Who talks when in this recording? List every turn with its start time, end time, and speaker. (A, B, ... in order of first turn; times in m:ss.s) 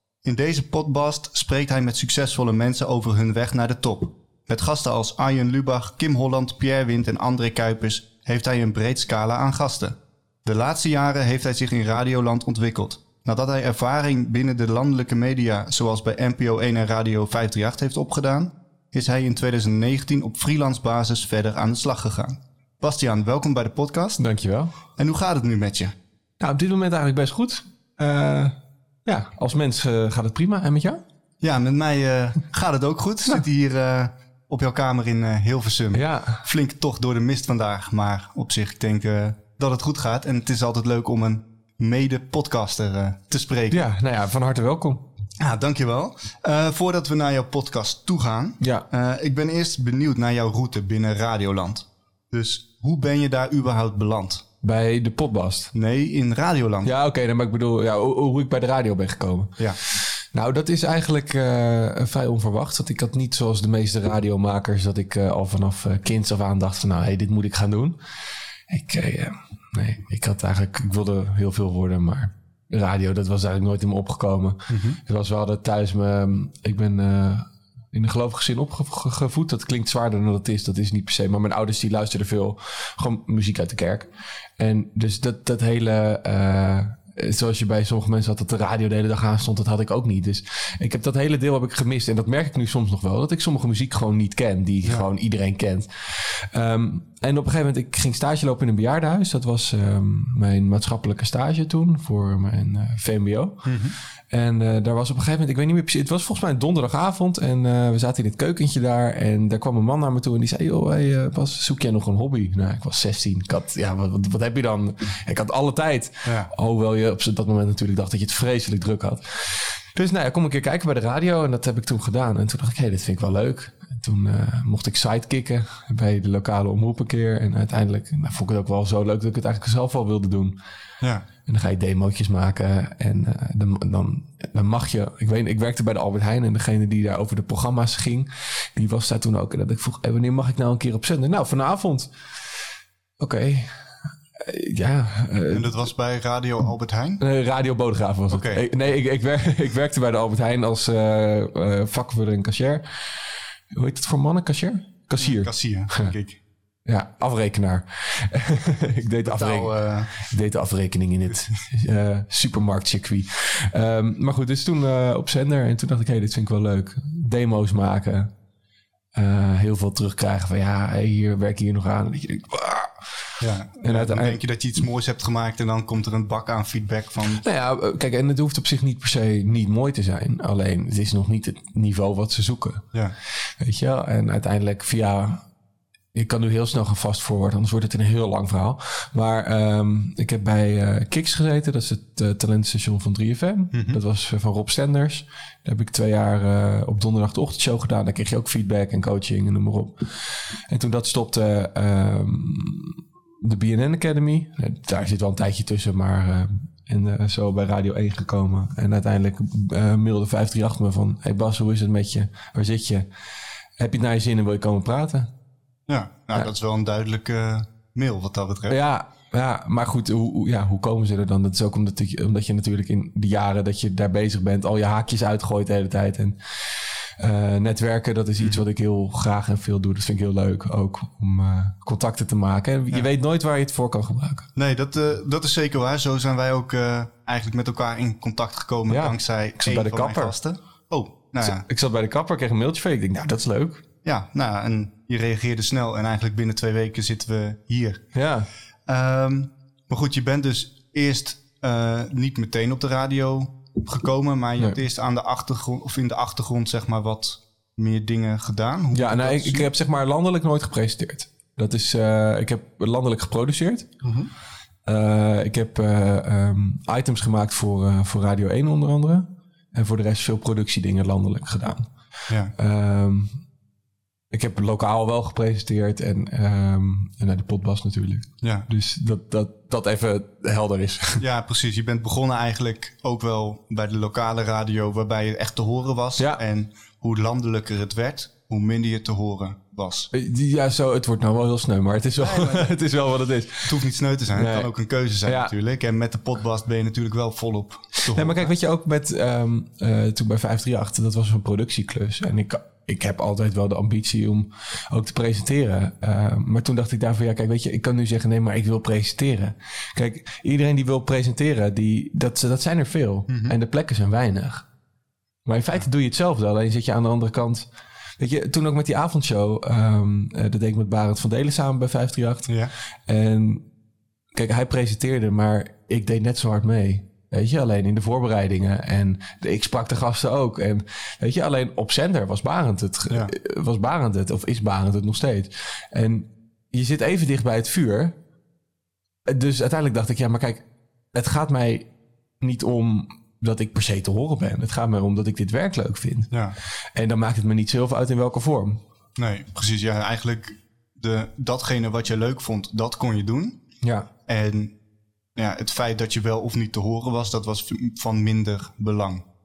0:00.2-0:24.2 A
0:24.2-0:24.7 B
0:25.0-0:25.9 A
0:26.4-0:31.0 B
0:31.4-0:43.8 A
0:35.9-0:36.4 B
0:43.7-0:45.0 B
0:45.4-0:54.4 A
0:48.6-0:48.8 B
0:54.6-0:55.7 B
0:55.7-0:56.9 A
0:56.8-1:08.0 B
1:08.7-1:43.7 B
1:14.7-1:15.0 A
1:43.6-1:44.0 A
1:44.3-2:10.5 B
1:56.2-1:56.5 A
2:11.4-2:22.1 B
2:23.2-2:23.7 B
2:24.3-2:25.8 B
2:25.5-2:27.2 A
2:27.2-2:36.1 B
2:28.3-2:28.6 A
2:35.2-2:36.4 A
2:36.8-2:48.3 B
2:39.2-2:40.1 A
2:41.3-2:41.6 A
2:49.1-2:54.4 B
2:53.4-2:57.4 A
2:57.3-3:02.8 B
3:03.4-3:05.4 B
3:06.1-3:33.1 B
3:13.7-3:14.0 A
3:33.8-3:35.3 B
3:35.9-3:38.8 A
3:38.7-3:54.5 B
3:54.6-4:01.6 A
3:58.9-4:00.3 B
4:01.4-4:03.8 B
4:04.0-4:08.0 A
4:08.1-4:08.5 B
4:08.9-4:19.7 A
4:18.9-4:23.9 B
4:24.0-4:24.3 A
4:24.8-4:31.9 B
4:32.5-4:33.4 B
4:34.3-4:41.2 B
4:38.4-4:38.7 A
4:41.2-4:50.1 A
4:50.1-4:53.8 B
4:52.2-4:52.7 A
4:53.6-4:58.5 A
4:54.3-4:54.7 B
4:55.2-4:55.5 B
4:58.1-5:14.6 B
5:13.3-5:13.5 A
5:15.4-5:17.7 B
5:18.2-5:22.5 B
5:22.5-5:22.7 A
5:23.1-5:23.6 B
5:24.3-5:38.1 B
5:39.2-5:40.6 B
5:41.1-5:41.8 B
5:42.4-5:46.3 B
5:46.9-5:48.8 B
5:49.2-5:53.6 A
5:53.8-5:54.1 B
5:54.3-5:54.7 A
5:55.4-5:59.2 A